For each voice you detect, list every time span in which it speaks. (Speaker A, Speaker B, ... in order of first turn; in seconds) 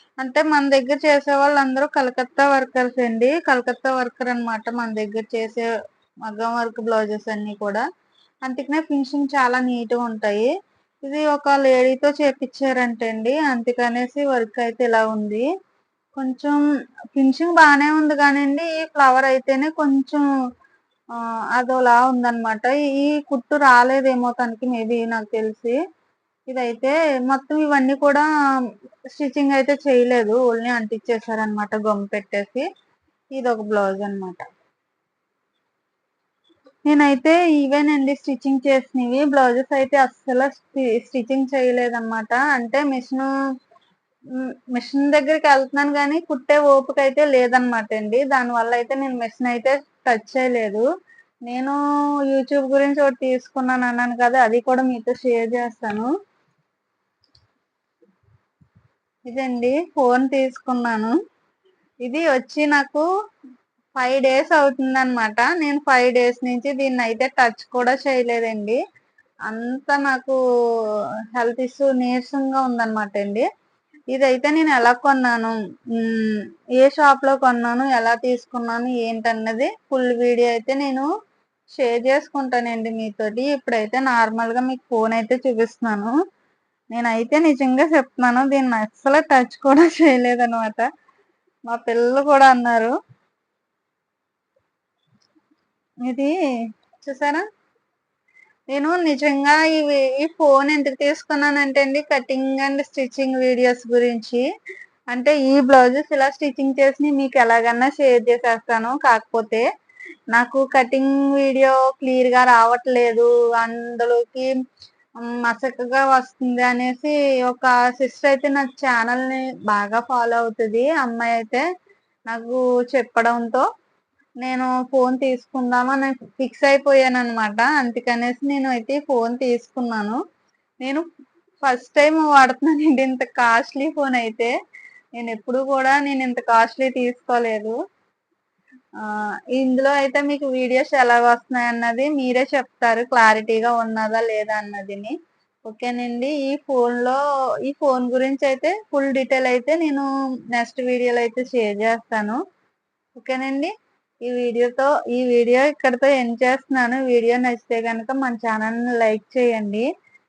Speaker A: 0.2-5.7, 6.3-7.8, 8.4-10.5, 11.0-15.5, 16.1-16.6, 17.1-20.2, 21.1-25.8, 26.5-28.3, 29.1-32.7, 33.3-34.4, 36.9-43.3, 44.4-50.8, 51.5-56.1, 59.3-61.2, 62.0-63.1, 64.0-68.8, 69.5-70.4, 71.3-73.5, 74.1-81.1, 81.7-86.2, 86.9-90.9, 91.7-92.9, 96.0-96.3, 97.0-97.4, 98.7-104.4, 105.1-109.6, 110.3-114.5, 115.2-121.6, 122.3-123.6, 124.4-130.2, 131.6-134.5, 135.2-137.8, 139.0-152.4, 153.2-153.7, 154.2-159.9